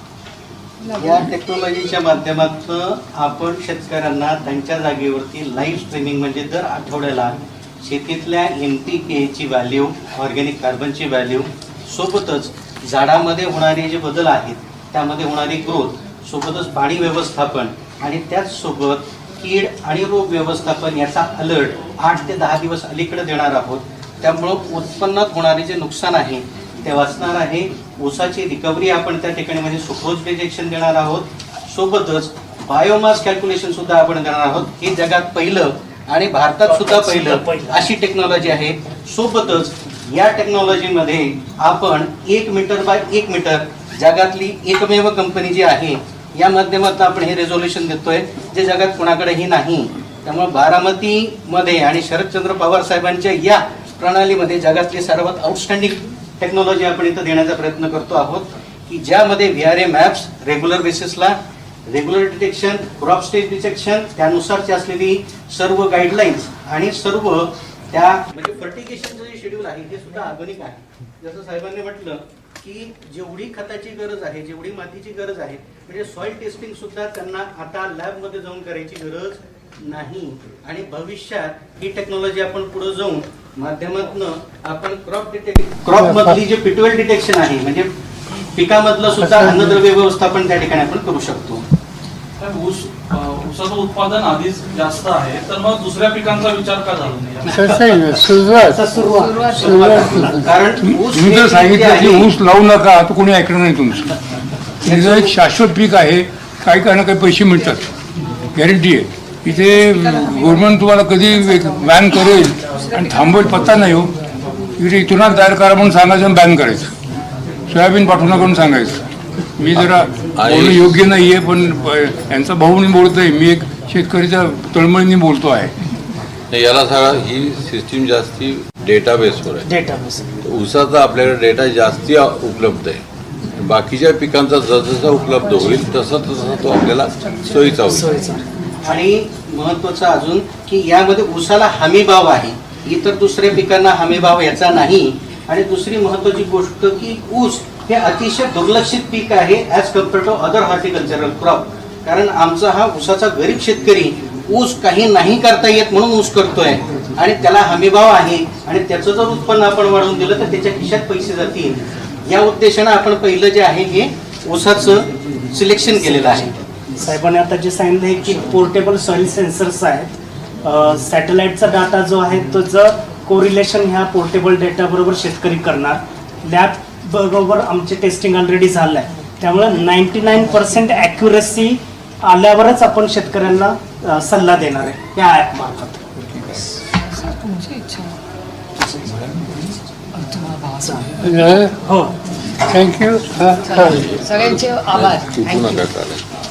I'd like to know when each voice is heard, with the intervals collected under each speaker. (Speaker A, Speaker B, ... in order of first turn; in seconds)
Speaker A: 0.9-1.2, 98.9-100.4, 135.2-138.4, 186.9-188.2, 190.1-191.4, 193.6-195.9
Speaker B: 0.9-61.4, 61.9-87.9, 88.5-91.6, 99.5-102.3, 104.8-105.4, 138.8-166.5
Speaker C: 36.6-37.9, 98.6-100.4, 129.6-130.3, 137.9-138.4, 167.0-186.1, 188.8-189.2, 191.8-192.1
Speaker D: 85.9-86.4, 89.2-89.8, 97.5-98.8, 99.6-100.4, 191.2-191.8, 192.7-194.0
Speaker E: 92.4-97.9
Speaker F: 100.8-104.1, 104.8-107.8, 108.5-114.2, 114.8-116.9, 117.7-119.0, 119.6-125.7
Speaker G: 120.3-120.8, 126.5-129.7, 130.4-138.1, 193.8-196.2